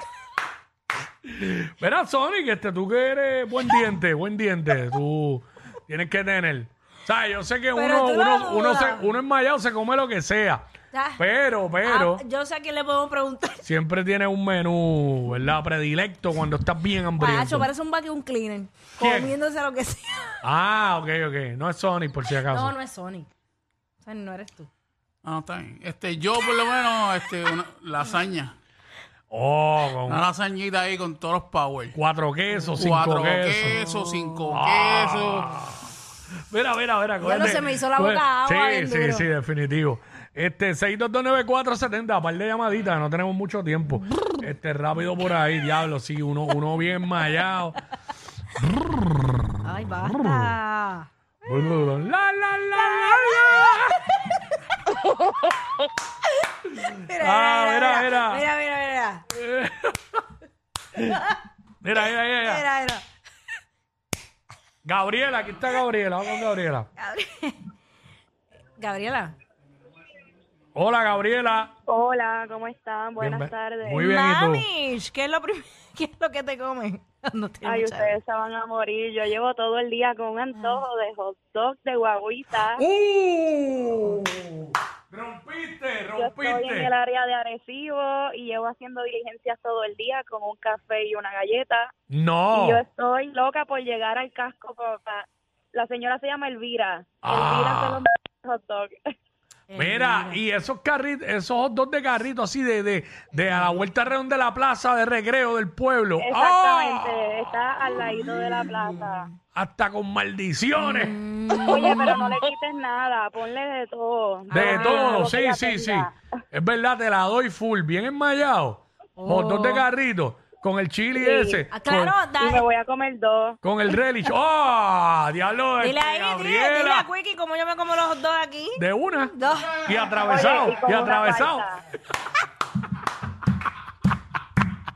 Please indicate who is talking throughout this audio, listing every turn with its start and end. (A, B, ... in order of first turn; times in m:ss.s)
0:01.2-0:10.6 A
0:07.7-0:09.1 B
0:10.9-0:11.2 B
0:11.2-0:12.2 A
0:11.8-0:13.6 B
0:13.6-0:17.7 A
0:17.2-0:20.4 B
0:19.0-0:19.4 A
0:20.4-0:22.7 A
0:22.4-0:23.3 B
0:24.0-0:24.7 B
0:25.2-0:28.6 C
0:29.3-0:30.2 A
0:30.0-0:32.0 C
0:31.9-0:33.8 A
0:32.7-0:35.5 C
0:33.6-0:34.4 B
0:34.5-0:36.0 A
0:36.5-0:47.8 A
0:37.2-0:39.3 B
0:48.6-0:49.6 A
0:49.6-0:51.7 B
0:50.2-0:50.5 A
0:51.5-0:54.1 A
0:52.8-0:53.8 B
0:56.6-0:59.2 B
0:57.1-0:58.5 A
0:59.3-1:00.2 A
1:01.8-1:02.6 A
1:02.0-1:03.0 B
1:04.8-1:06.9 A
1:07.0-1:07.6 B
1:08.8-1:09.4 B
1:10.7-1:11.7 A
1:11.9-1:14.0 D
1:13.2-1:14.7 A
1:14.0-1:18.1 B
1:17.6-1:22.8 D
1:20.5-1:20.8 B
1:22.8-1:26.9 A
1:23.5-1:24.2 B
1:26.2-1:31.9 D
1:32.1-1:32.8 A
1:32.5-1:38.9 D
1:37.2-1:38.0 A
1:39.7-1:40.4 B
1:39.7-1:47.4 A
1:46.2-1:49.3 D
1:48.8-1:49.3 B
1:49.5-1:51.2 A
1:50.8-1:52.4 B
1:51.6-1:56.1 D
1:54.5-2:02.2 A
1:54.5-1:55.3 B
1:59.2-1:59.8 B
2:01.1-2:01.6 D
2:01.7-2:02.6 B
2:02.4-2:03.6 D
2:03.6-2:07.1 A
2:05.8-2:08.8 B
2:08.8-2:11.7 A
2:09.3-2:09.9 B
2:10.2-2:11.8 D